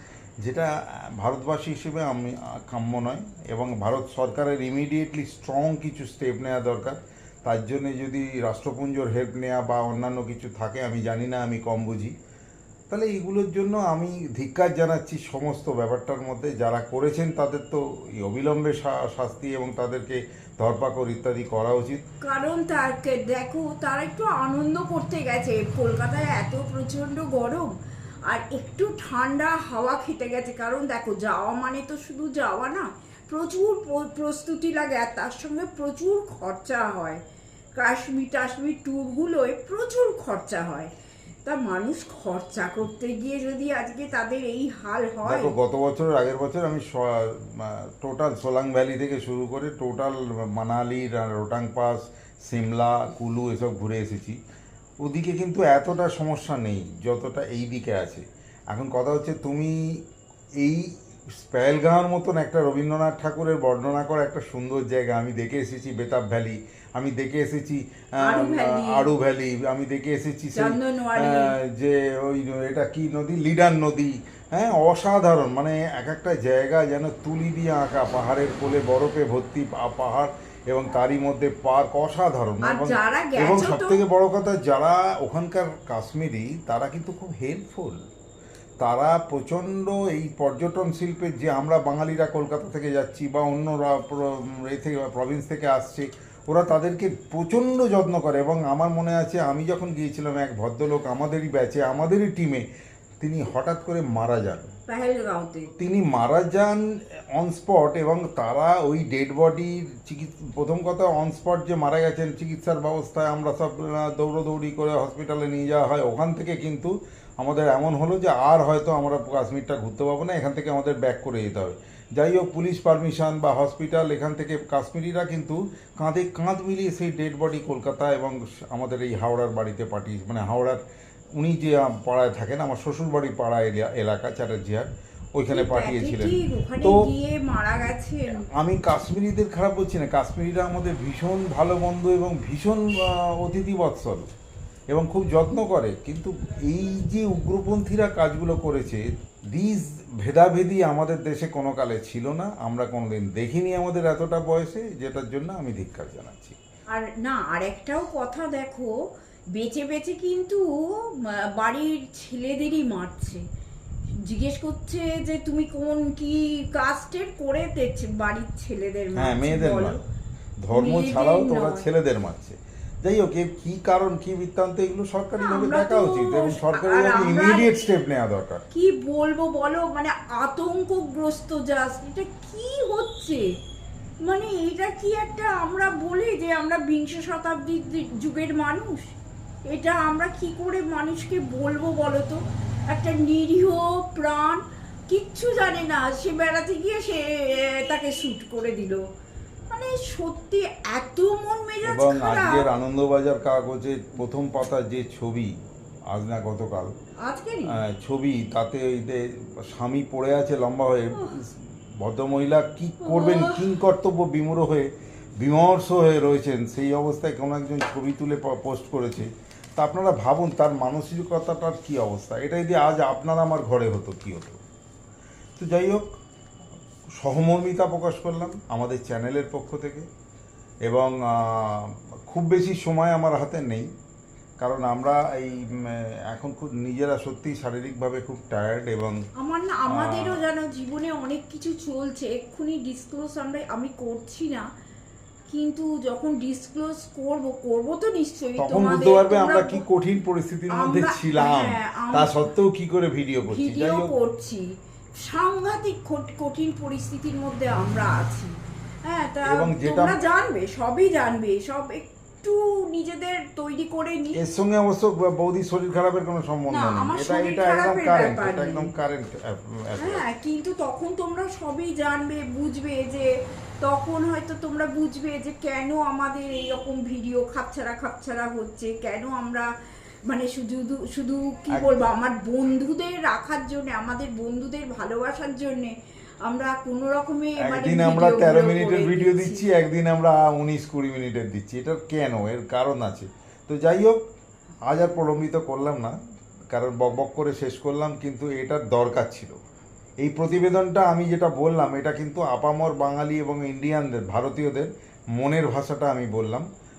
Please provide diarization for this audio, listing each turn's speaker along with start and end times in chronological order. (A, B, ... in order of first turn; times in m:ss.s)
0:00.4-0:12.1 A
0:12.9-0:22.0 A
0:22.2-0:27.7 B
0:28.3-0:37.2 B
0:37.8-0:40.9 B
0:41.5-0:45.5 B
0:45.3-0:54.4 A
0:55.0-0:59.9 A
1:00.6-1:28.0 A
1:08.2-1:09.1 B
1:10.6-1:11.6 B
1:22.6-1:24.0 B
1:28.8-1:42.6 A
1:43.2-1:44.7 A
1:44.9-1:45.7 B
1:45.8-2:10.8 A
2:11.4-2:17.0 A
2:15.5-2:18.4 B
2:18.6-2:24.3 A
2:24.9-2:36.6 A
2:36.9-2:38.9 B
2:39.6-2:43.4 B
2:44.3-2:50.0 B
2:49.2-2:50.0 A
2:50.6-2:58.6 A
2:50.7-2:51.9 B
2:55.4-2:57.9 B
2:58.7-3:03.4 B
3:04.3-3:09.2 B
3:09.7-3:12.4 B
3:12.9-3:19.0 B
3:19.7-3:22.7 B
3:21.8-3:25.5 A
3:26.1-3:26.9 A
3:27.2-3:27.7 B
3:27.8-3:44.6 A
3:31.1-3:31.4 B
3:33.0-3:33.7 B
3:45.6-3:46.1 A
3:47.2-3:50.1 A
3:50.9-3:53.9 A
3:54.6-3:59.2 A
3:59.4-4:04.7 B
3:59.9-4:00.4 A
4:05.5-4:09.8 B
4:08.6-4:14.1 A
4:10.7-4:12.3 B
4:13.5-4:14.6 B
4:15.2-4:18.5 B
4:19.1-4:24.4 B
4:19.4-4:20.2 A
4:24.4-4:30.2 A
4:26.7-4:28.9 B
4:30.0-4:33.3 B
4:33.8-4:39.7 B
4:40.3-4:45.9 B
4:41.7-4:42.0 A
4:46.5-4:49.7 B
4:47.6-4:54.2 A
4:54.9-4:56.1 A
4:56.7-4:59.6 A
5:00.2-5:06.7 A